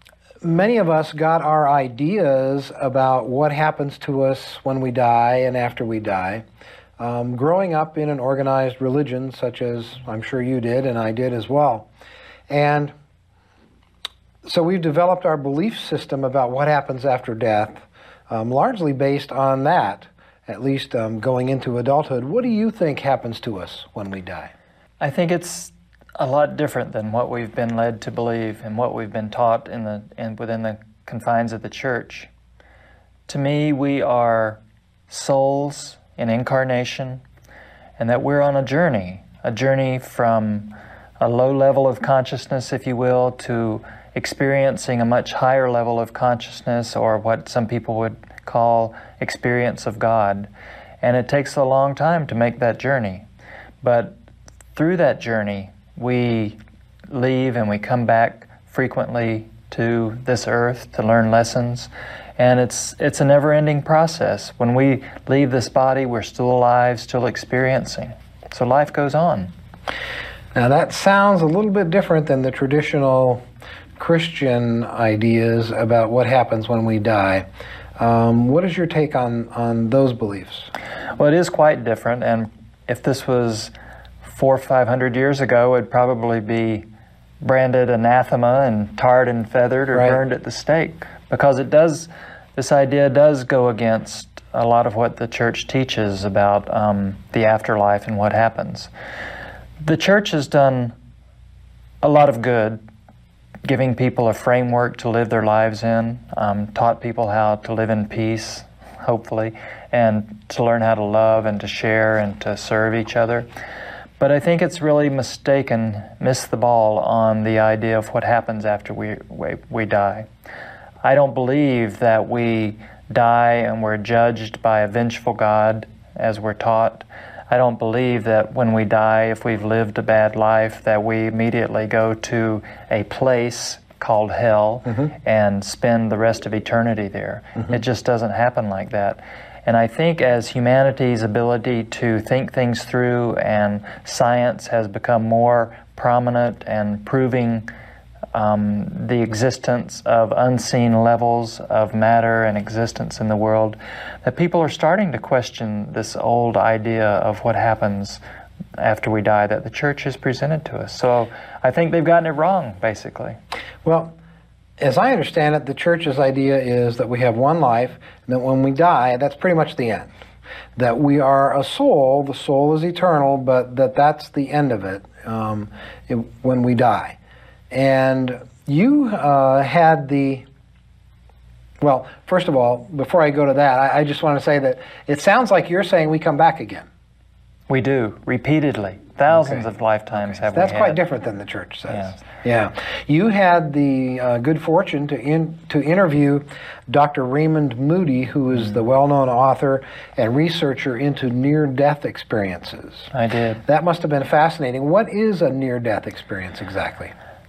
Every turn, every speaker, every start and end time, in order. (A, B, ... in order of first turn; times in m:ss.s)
0:00.4-0:06.4 A
0:07.0-0:11.9 A
0:12.5-0:12.9 A
0:14.4-0:24.5 A
0:25.0-0:32.3 B
0:33.3-0:37.2 B
0:38.0-0:50.5 B
0:51.0-0:53.3 B
0:53.8-0:54.2 B
0:54.8-0:56.6 B
0:57.1-1:09.5 B
1:10.5-1:13.4 A
1:14.0-1:17.5 A
1:18.0-1:20.7 A
1:21.2-1:23.7 B
1:24.2-1:26.8 B
1:27.4-1:38.9 B
1:29.9-1:30.2 A
1:39.8-1:40.9 B
1:42.0-1:42.8 B
1:43.6-1:53.5 B
1:54.2-2:00.3 B
2:01.0-2:27.7 B
2:28.3-2:38.2 B
2:38.8-2:43.4 B
2:43.8-2:44.2 A
2:44.8-2:50.1 A
2:50.8-2:57.2 A
2:57.7-3:00.5 A
3:01.8-3:06.9 A
3:07.7-3:11.0 B
3:09.4-3:09.6 A
3:10.4-3:23.1 A
3:23.1-3:23.6 B
3:23.7-3:27.1 A